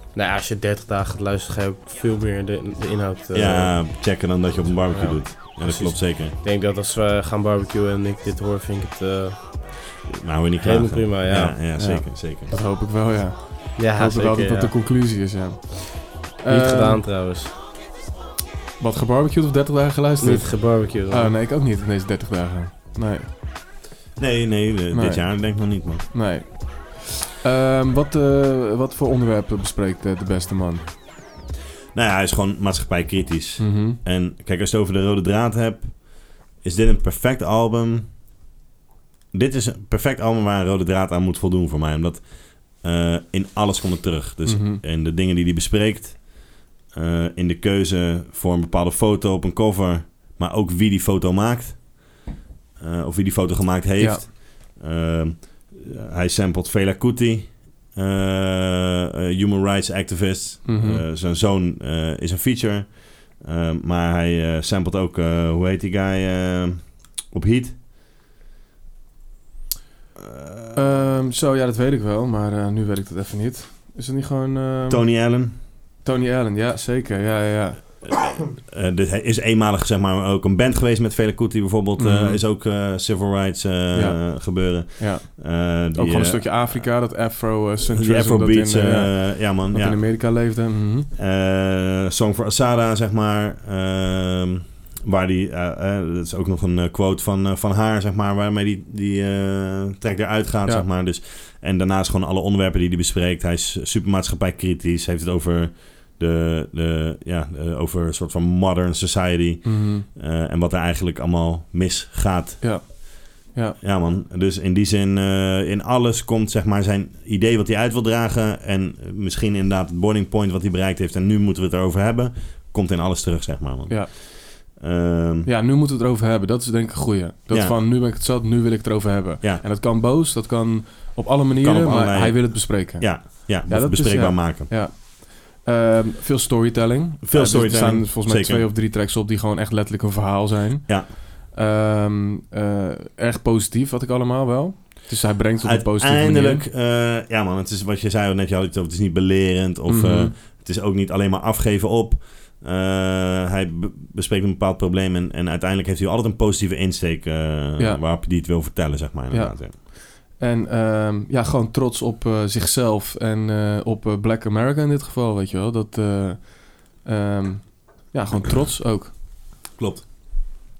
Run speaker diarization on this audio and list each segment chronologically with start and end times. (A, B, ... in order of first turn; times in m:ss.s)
0:00.1-0:03.8 A
0:03.3-0:06.4 B
0:05.6-0:09.9 A
0:10.1-0:12.5 B
0:10.6-0:11.6 A
0:11.8-0:17.0 C
0:13.8-0:14.7 A
0:16.5-0:17.5 A
0:18.8-0:23.3 C
0:20.2-0:21.3 A
0:24.2-0:26.1 B
0:24.9-0:30.9 C
0:31.9-0:38.2 B
0:33.6-0:34.0 C
0:39.3-0:52.2 B
0:44.5-0:44.8 C
0:52.8-1:07.8 B
0:54.0-0:54.3 C
1:00.6-1:01.0 C
1:10.2-1:10.8 B
1:10.8-1:18.0 C
1:14.9-1:15.6 B
1:18.0-1:26.9 B
1:22.0-1:22.4 C
1:24.0-1:31.1 C
1:27.9-1:30.6 B
1:31.2-1:53.0 B
1:49.6-1:50.1 C
1:52.6-1:53.8 C
1:53.8-2:05.5 B
2:05.5-2:26.6 C
2:07.5-2:07.8 B
2:11.6-2:14.7 B
2:17.2-2:18.7 B
2:25.6-2:39.7 B
2:29.9-2:30.4 C
2:37.8-2:38.0 C
2:39.3-2:49.2 C
2:49.8-2:50.1 B